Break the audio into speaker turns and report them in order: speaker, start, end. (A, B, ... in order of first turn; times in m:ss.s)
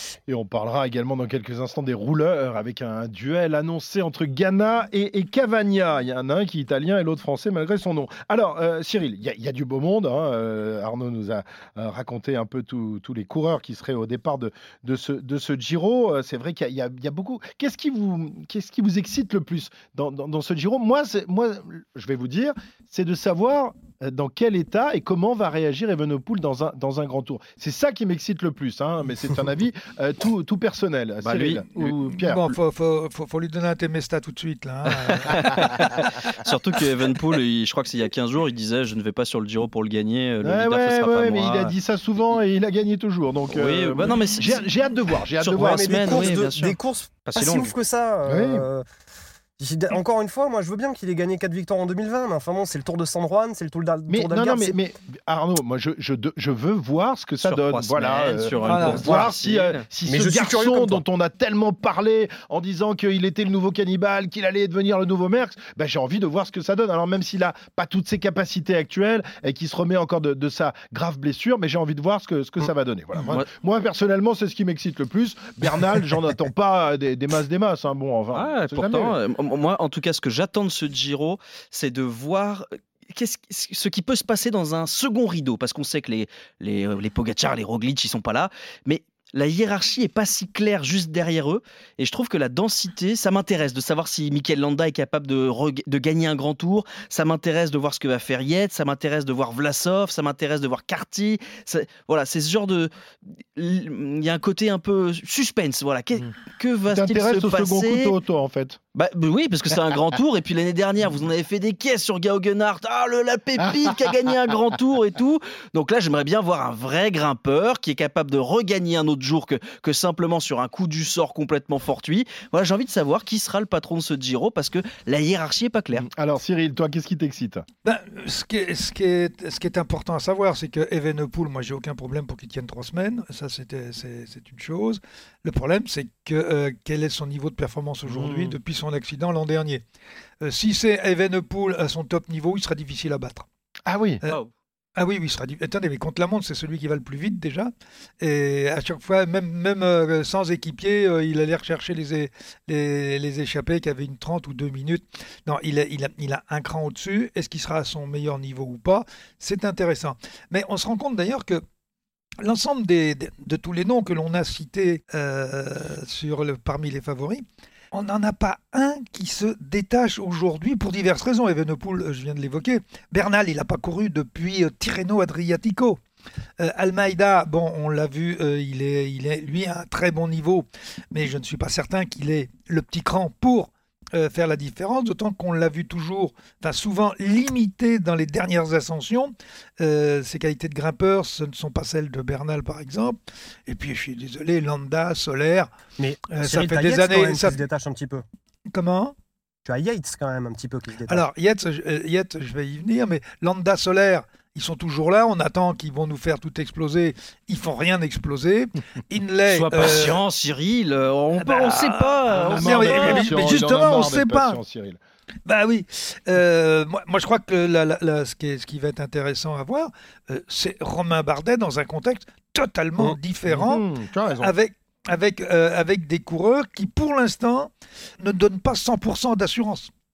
0:00.3-0:32.4 A
0:31.2-0:31.8 B
0:31.8-0:35.6 C
0:35.3-0:41.7 B
0:40.4-0:46.5 A
0:43.5-0:44.7 B
0:45.4-0:47.7 B
0:45.6-0:48.8 D
0:48.3-0:48.7 A
0:49.6-0:54.8 D
0:54.1-1:19.1 A
0:57.4-0:59.8 B
0:58.7-0:59.2 C
1:00.1-1:01.0 D
1:18.3-1:42.9 B
1:43.6-1:48.2 B
1:46.9-1:48.8 A
1:49.0-2:06.1 B
2:06.0-2:07.6 A
2:07.8-2:19.8 C
2:18.1-2:18.6 A
2:20.4-2:23.5 C
2:23.9-2:24.2 A
2:25.0-2:41.6 C
2:42.4-2:56.0 C
2:56.6-3:15.7 C
3:16.0-3:18.2 D
3:16.3-3:17.6 C
3:18.7-3:19.1 C
3:19.7-3:21.3 D
3:21.1-3:30.2 C
3:29.5-3:33.5 B
3:31.4-3:34.6 C
3:32.4-3:35.0 A
3:35.5-3:43.8 C
3:43.5-3:44.5 A
3:44.4-3:49.9 C